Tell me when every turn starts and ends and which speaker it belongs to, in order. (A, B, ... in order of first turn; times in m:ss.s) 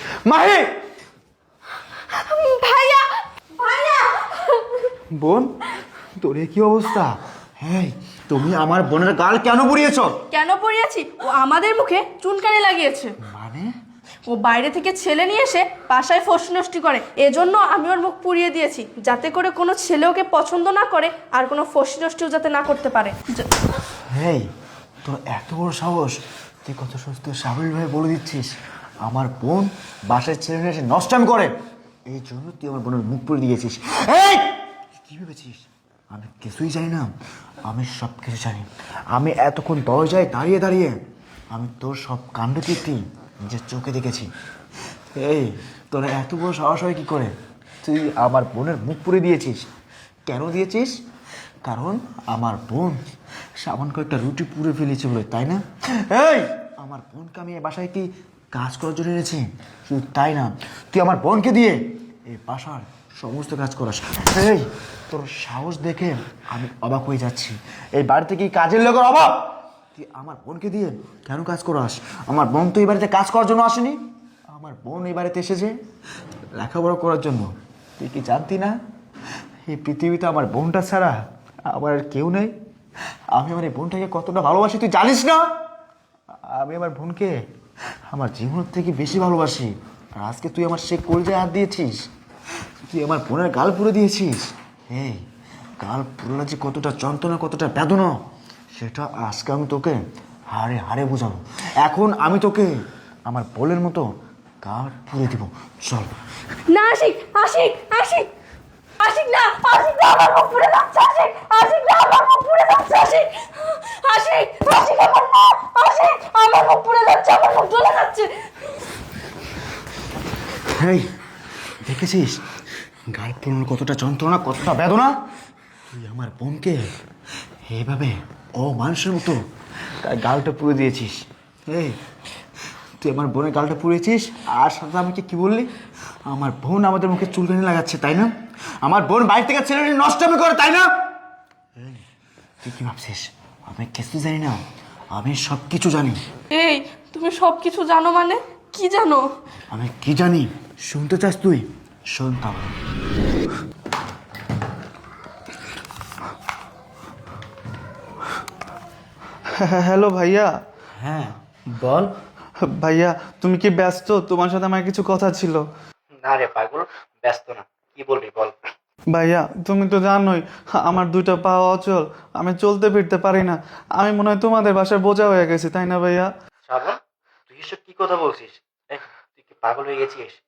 0:00.2-0:00.7 A
0:02.1-0:04.7 B
0:05.2-0:05.5 A
0:06.2-0:10.1 A
0:10.3-0:13.1 B
0:13.2-0:13.7 A
0:14.3-0:23.5 B
0:24.0-0:24.4 A
0:25.0-0:28.5 A
0:29.0-0:31.5 A
0:32.1-0:37.1 A
0:37.6-0:41.0 A
0:41.5-0:44.3 A
0:45.1-0:47.3 A
0:47.8-0:49.6 A
0:50.3-0:51.0 A
0:51.6-0:53.0 A
0:53.6-1:15.8 A
1:16.5-1:18.8 A
1:19.6-1:22.5 A
1:23.3-1:25.4 A
1:26.4-1:27.4 A
1:28.1-1:31.9 A
1:32.9-1:35.2 A
1:35.8-1:38.1 A
1:38.8-1:40.0 A
1:40.5-1:42.7 A
1:43.3-1:44.1 A
1:44.6-1:46.1 A
1:46.7-1:48.3 B
1:49.0-1:58.5 B
2:00.5-2:01.1 A
2:01.8-2:02.5 A
2:03.1-2:05.2 A
2:05.9-2:06.8 A
2:07.7-2:09.4 A
2:10.0-2:12.0 A
2:13.0-2:15.7 A
2:16.3-2:18.3 A
2:18.8-2:20.9 A
2:21.8-2:22.0 A
2:22.6-2:24.6 A
2:25.1-2:26.2 A
2:26.5-2:29.2 B
2:29.7-2:32.8 A
2:39.6-2:40.5 C
2:41.0-2:42.1 A
2:42.8-2:45.6 C
2:46.2-2:48.5 D
2:49.1-2:56.3 C
2:56.7-2:56.9 D
2:57.5-2:59.0 D
2:59.6-3:00.4 D